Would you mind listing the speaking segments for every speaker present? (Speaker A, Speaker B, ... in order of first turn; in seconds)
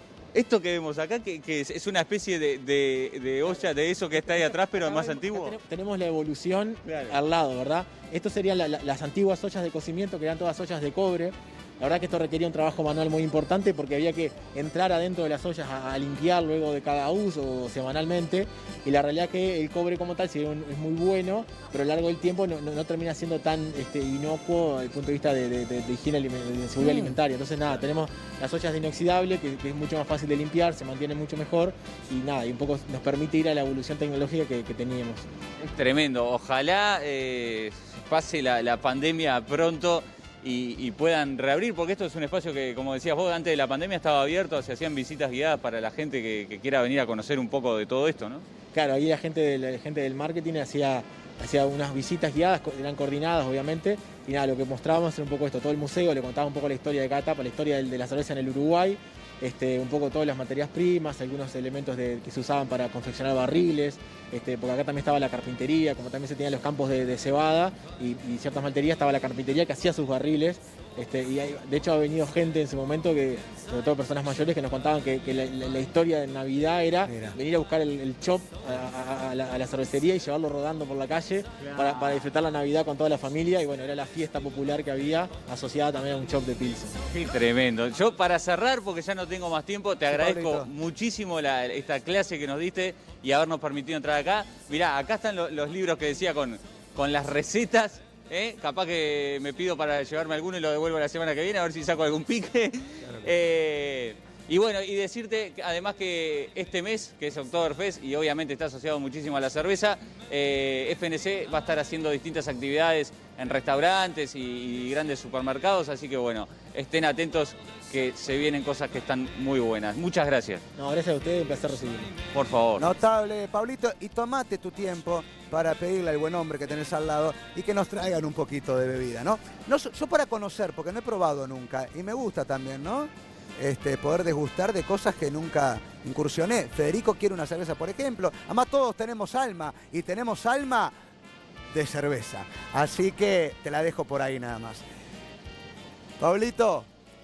Speaker A: 0.3-5.6, 6.8-7.2, 35.6-48.5, 81.6-82.3, 87.1-120.6, 122.3-122.9
Speaker B: 3.5-35.2, 48.7-87.0, 120.8-122.1
Speaker C: 77.0-77.4, 90.0-90.7, 122.8-140.9, 141.7-144.8, 146.2-146.9